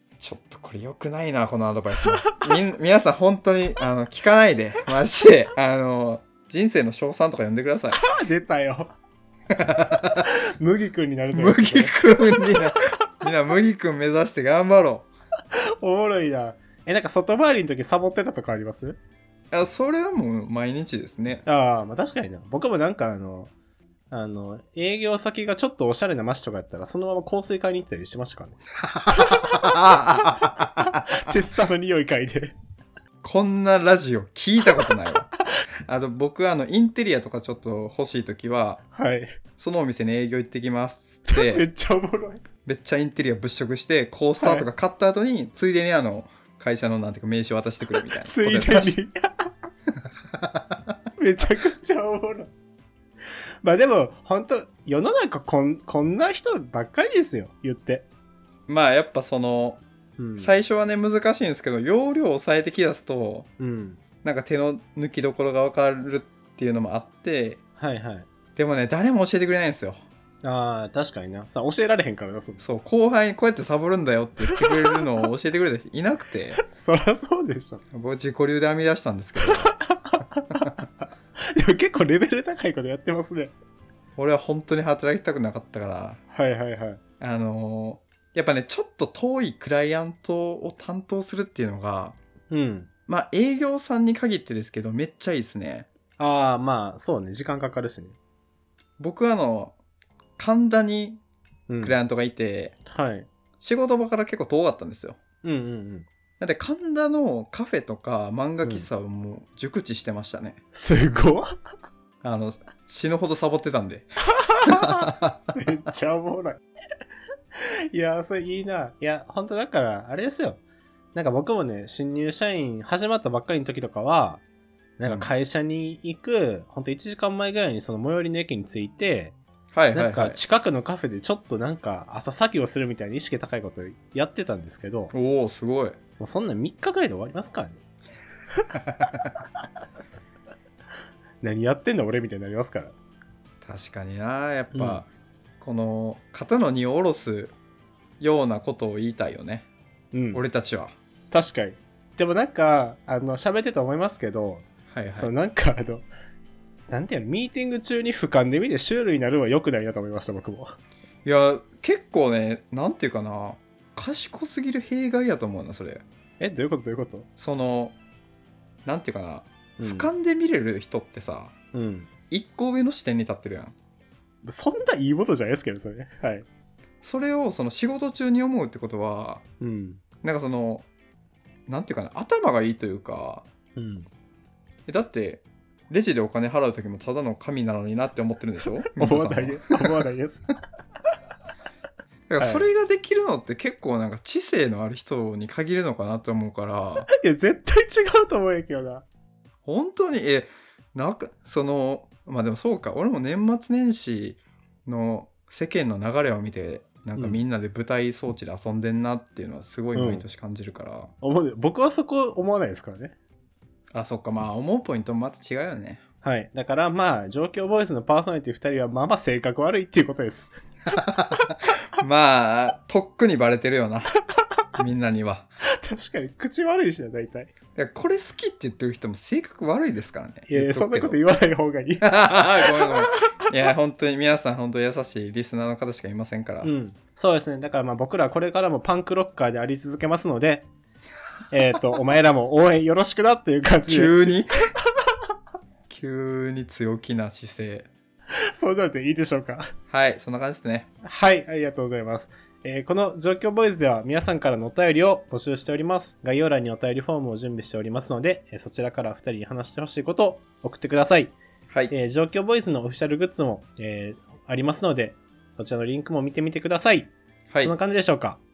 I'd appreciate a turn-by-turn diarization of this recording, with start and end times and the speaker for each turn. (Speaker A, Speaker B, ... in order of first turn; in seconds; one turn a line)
Speaker A: 0.2-8.1
Speaker B: 8.0-8.9
Speaker A: 9.5-10.3
Speaker B: 10.2-12.8
Speaker A: 11.3-15.1
Speaker B: 15.5-19.0
Speaker A: 19.5-21.4
Speaker B: 21.4-23.5
Speaker B: 24.1-28.6
Speaker A: 28.9-31.1
Speaker B: 29.1-32.5
Speaker A: 33.2-35.3
Speaker A: 35.9-38.8
Speaker B: 38.9-39.4
Speaker A: 39.6-41.7
Speaker B: 41.3-42.4
Speaker A: 42.6-49.0
Speaker B: 44.4-44.7
Speaker B: 48.0-49.5
Speaker B: 51.2-52.5
Speaker B: 53.6-58.1
Speaker A: 58.7-59.8
Speaker B: 60.2-60.5
Speaker A: 60.4-63.5
Speaker B: 63.6-64.0
Speaker A: 64.2-67.6
Speaker B: 67.8-68.3
Speaker A: 68.5-70.0
Speaker B: 70.4-72.6
Speaker A: 72.6-76.6
Speaker B: 74.5-75.0
Speaker B: 76.6-77.8
Speaker A: 77.9-79.8
Speaker B: 79.4-80.7
Speaker B: 81.4-83.5
Speaker A: 84.2-86.2
Speaker B: 86.3-87.0
Speaker A: 87.2-92.2
Speaker B: 92.5-92.9
Speaker A: 93.1-95.9
Speaker B: 96.2-98.2
Speaker A: 99.0-99.8
Speaker A: 100.4-101.2
Speaker B: 101.7-102.0
Speaker A: 101.8-102.8
Speaker B: 102.9-103.3
Speaker A: 103.6-105.2
Speaker B: 105.4-106.1
Speaker A: 106.4-110.6
Speaker B: 110.7-111.5
Speaker A: 112.2-114.1
Speaker B: 114.4-116.6
Speaker A: 114.6-115.5
Speaker B: 117.5-120.6
Speaker B: 121.1-124.4
Speaker B: 125.0-129.4
Speaker A: 125.1-125.3
Speaker A: 129.7-130.4
Speaker B: 129.9-135.1
Speaker A: 135.1-136.0
Speaker B: 136.2-137.8
Speaker A: 138.9-139.3
Speaker B: 141.4-142.9
Speaker A: 143.6-145.1
Speaker B: 144.7-145.0
Speaker A: 145.6-147.5
Speaker A: 148.2-149.7
Speaker B: 150.1-150.4
Speaker A: 150.3-150.9
Speaker B: 151.3-156.1
Speaker A: 154.9-155.3
Speaker B: 156.9-160.8
Speaker A: 161.2-166.0
Speaker B: 166.4-167.3
Speaker A: 167.4-168.0
Speaker A: 168.8-171.5
Speaker B: 169.8-170.1
Speaker B: 171.7-172.1
Speaker A: 172.3-173.8
Speaker B: 174.4-176.5
Speaker A: 177.0-179.4
Speaker B: 179.6-180.0
Speaker A: 180.2-180.9
Speaker A: 181.7-183.5
Speaker B: 183.8-184.1
Speaker A: 184.9-190.0
Speaker B: 189.0-190.5
Speaker A: 192.3-197.1
Speaker B: 192.4-192.7
Speaker B: 197.1-199.1
Speaker A: 199.7-211.1
Speaker B: 207.2-207.4
Speaker B: 209.9-210.2
Speaker B: 211.2-213.2
Speaker A: 213.9-216.0
Speaker B: 216.2-220.5
Speaker A: 220.9-224.2
Speaker A: 224.7-225.5
Speaker B: 225.7-227.5
Speaker A: 227.8-231.2
Speaker B: 230.5-233.3
Speaker A: 232.0-236.7
Speaker B: 236.6-240.7
Speaker B: 241.5-245.2
Speaker A: 243.9-244.7
Speaker A: 245.9-247.9
Speaker B: 248.5-249.7
Speaker A: 249.9-250.9
Speaker B: 251.0-261.4
Speaker B: 261.9-267.1
Speaker A: 267.5-267.8
Speaker B: 267.6-268.4